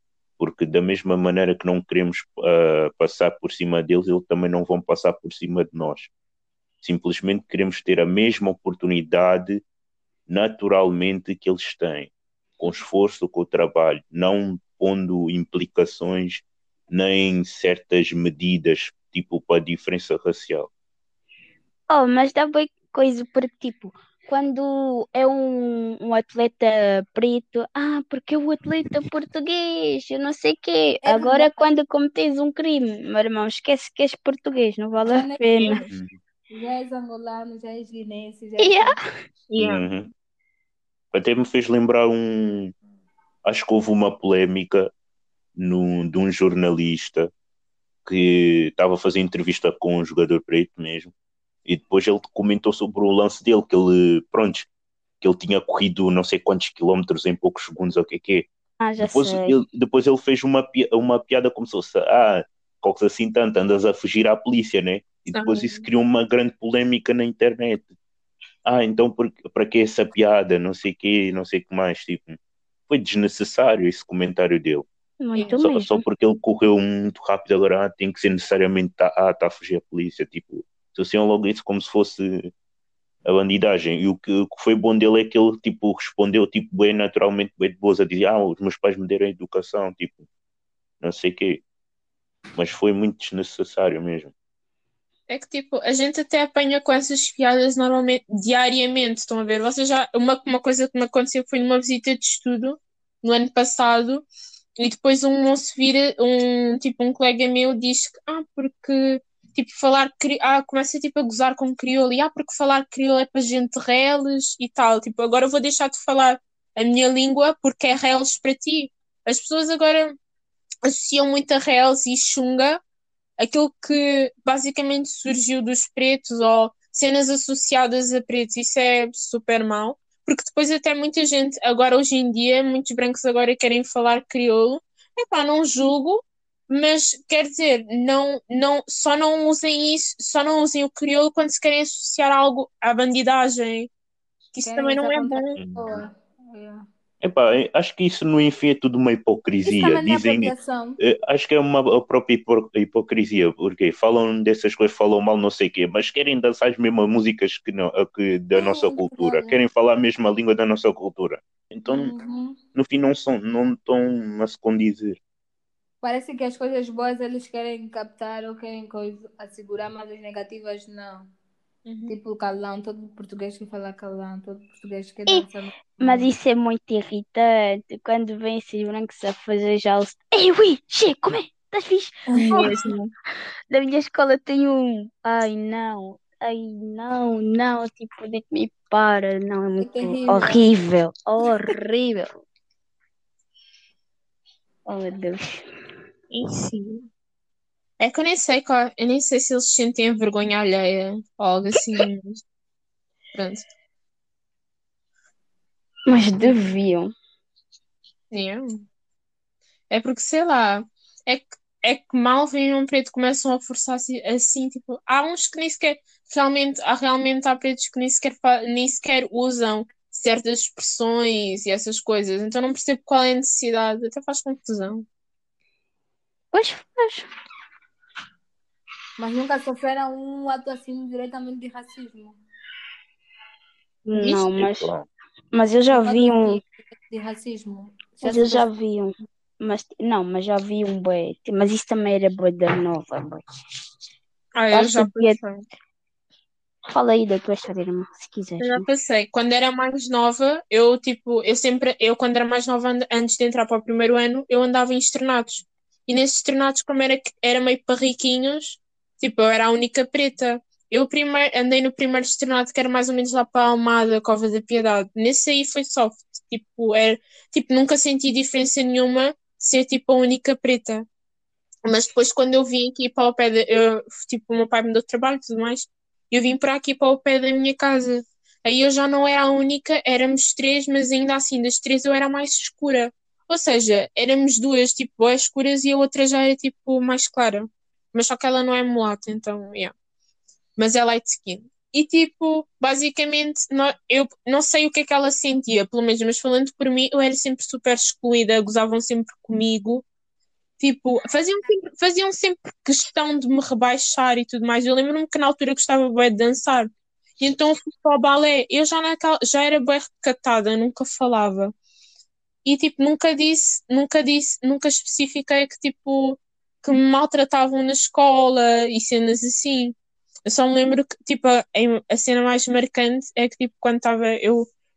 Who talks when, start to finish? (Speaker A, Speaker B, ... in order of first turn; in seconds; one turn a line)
Speaker A: 0.4-6.1
Speaker A: 6.8-9.6
Speaker A: 10.3-20.7
Speaker B: 21.9-35.9
Speaker C: 31.0-31.6
Speaker C: 35.0-35.8
Speaker D: 35.6-35.9
Speaker A: 35.9-36.2
Speaker C: 36.5-39.0
Speaker B: 38.6-39.1
Speaker D: 39.5-39.8
Speaker A: 39.6-40.1
Speaker A: 41.1-42.7
Speaker A: 43.4-44.9
Speaker A: 45.5-47.3
Speaker A: 48.0-51.1
Speaker A: 51.6-54.7
Speaker A: 55.2-58.5
Speaker B: 58.8-59.5
Speaker A: 59.0-67.9
Speaker D: 65.3-65.8
Speaker A: 68.6-74.9
Speaker B: 75.2-76.0
Speaker D: 75.3-75.6
Speaker A: 75.6-82.5
Speaker A: 83.2-90.3
Speaker A: 91.0-91.6
Speaker A: 92.5-94.3
Speaker D: 95.3-104.2
Speaker D: 104.8-120.2
Speaker D: 120.8-122.8
Speaker D: 123.4-143.9
Speaker D: 144.5-145.6
Speaker C: 144.6-146.8
Speaker A: 145.6-146.0
Speaker A: 147.2-162.1
Speaker C: 149.6-151.0
Speaker C: 158.5-159.6
Speaker C: 161.9-162.6
Speaker A: 162.7-165.2
Speaker C: 166.0-171.3
Speaker D: 171.8-172.1
Speaker C: 172.1-176.3
Speaker B: 176.0-182.9
Speaker C: 182.3-182.7
Speaker D: 182.5-183.1
Speaker B: 183.7-192.4
Speaker C: 189.8-190.7
Speaker B: 194.8-195.7
Speaker D: 196.3-197.1
Speaker D: 198.0-202.4
Speaker D: 203.3-203.7
Speaker B: 206.1-207.1
Speaker D: 208.3-208.8
Speaker D: 209.9-225.0
Speaker B: 226.5-227.3
Speaker C: 229.2-232.4
Speaker B: 234.1-234.9
Speaker A: 234.2-235.1
Speaker B: 235.5-236.6
Speaker C: 235.9-238.7
Speaker B: 238.2-243.4
Speaker D: 244.5-245.6
Speaker B: 244.7-245.4
Speaker B: 246.9-248.8
Speaker D: 248.6-271.1
Speaker D: 271.8-289.9
Speaker D: 290.8-300.0
Speaker D: 300.8-311.7
Speaker D: 312.6-319.9
Speaker D: 320.4-324.7